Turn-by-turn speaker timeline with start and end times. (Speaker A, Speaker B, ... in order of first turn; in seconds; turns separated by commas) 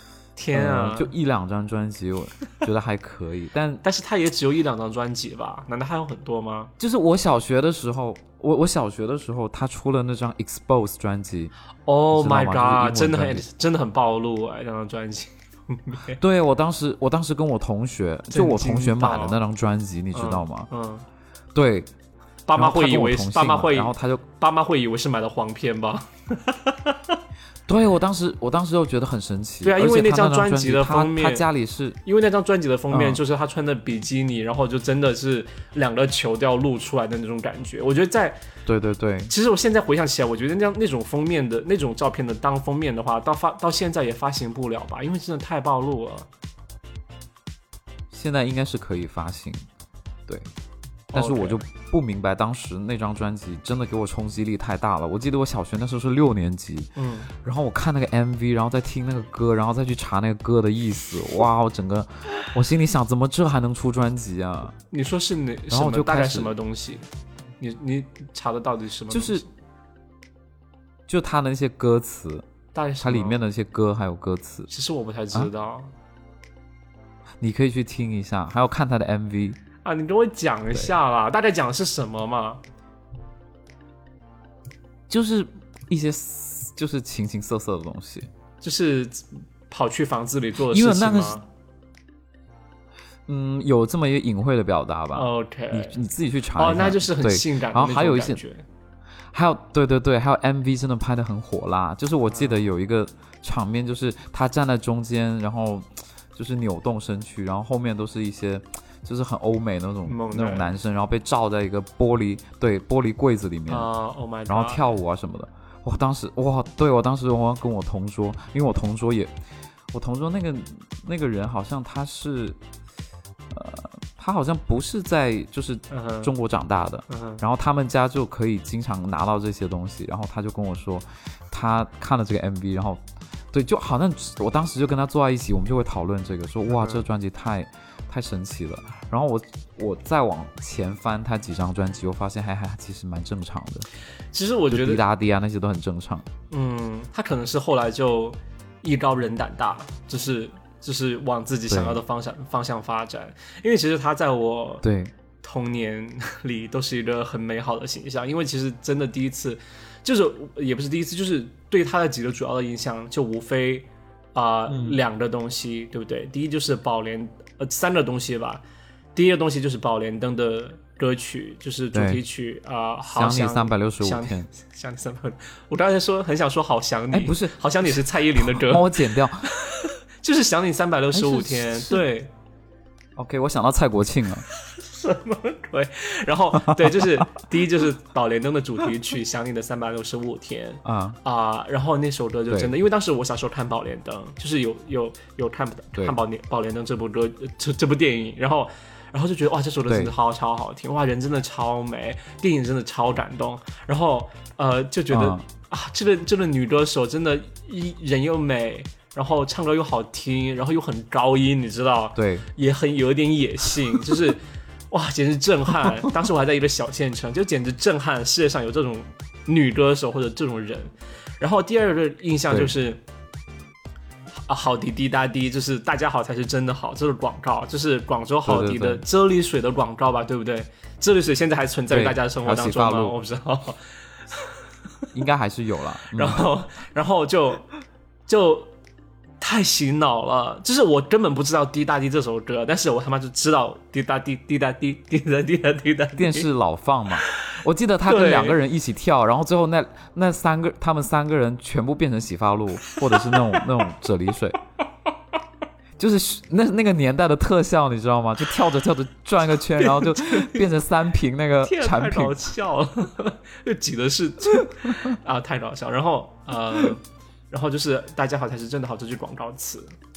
Speaker A: 0.4-1.1, Speaker B: 0.5-3.8, Speaker A: 3.8-6.7, Speaker B: 6.8-11.5, Speaker A: 11.8-16.2, Speaker B: 12.1-13.4, Speaker B: 16.2-20.7, Speaker A: 18.3-19.4, Speaker A: 20.1-21.1, Speaker B: 21.5-21.9, Speaker A: 22.4-27.0, Speaker B: 22.6-24.2, Speaker B: 27.7-32.0, Speaker A: 29.6-31.4, Speaker A: 32.0-38.4, Speaker B: 32.9-33.2, Speaker B: 38.6-39.3, Speaker A: 39.3-46.3, Speaker B: 48.1-49.6, Speaker B: 51.1-64.8, Speaker A: 51.1-51.6, Speaker A: 57.0-57.3, Speaker A: 64.9-67.0, Speaker B: 65.7-66.5, Speaker A: 67.6-69.5, Speaker B: 69.1-69.4, Speaker B: 71.1-72.5, Speaker A: 72.7-73.4, Speaker B: 73.0-74.7, Speaker A: 74.7-75.9, Speaker B: 77.4-79.6, Speaker A: 79.8-82.6, Speaker B: 85.1-88.3, Speaker A: 88.6-91.4, Speaker B: 90.7-91.4, Speaker B: 93.3-98.4, Speaker A: 95.1-96.0, Speaker A: 96.6-98.7, Speaker B: 99.3-113.9, Speaker A: 102.3-102.7, Speaker A: 110.0-110.7, Speaker A: 113.7-114.9, Speaker B: 114.5-119.3, Speaker B: 119.9-122.6, Speaker B: 123.5-143.8, Speaker A: 125.9-126.3, Speaker A: 127.1-127.4, Speaker A: 136.7-137.0, Speaker A: 144.3-145.0, Speaker B: 144.7-146.2, Speaker A: 146.5-154.8, Speaker B: 151.7-152.0, Speaker B: 154.8-155.1, Speaker A: 155.4-168.6, Speaker B: 164.7-165.0, Speaker A: 169.1-182.3, Speaker B: 171.9-172.2, Speaker B: 173.1-174.5, Speaker B: 177.1-179.5, Speaker B: 181.1-182.0, Speaker B: 183.2-184.4, Speaker A: 184.6-223.0, Speaker B: 190.8-191.2, Speaker B: 192.5-192.7, Speaker B: 199.9-200.1, Speaker B: 205.1-205.4, Speaker B: 212.2-212.5, Speaker B: 222.5-222.7, Speaker A: 224.5-234.5, Speaker B: 228.4-229.0, Speaker B: 231.9-233.1, Speaker B: 235.1-236.5, Speaker A: 236.1-237.7, Speaker A: 238.3-238.7, Speaker A: 239.4-246.5, Speaker B: 246.2-254.6, Speaker A: 247.2-248.6, Speaker A: 253.1-253.6, Speaker B: 256.0-262.4, Speaker A: 259.8-260.6, Speaker A: 261.6-269.9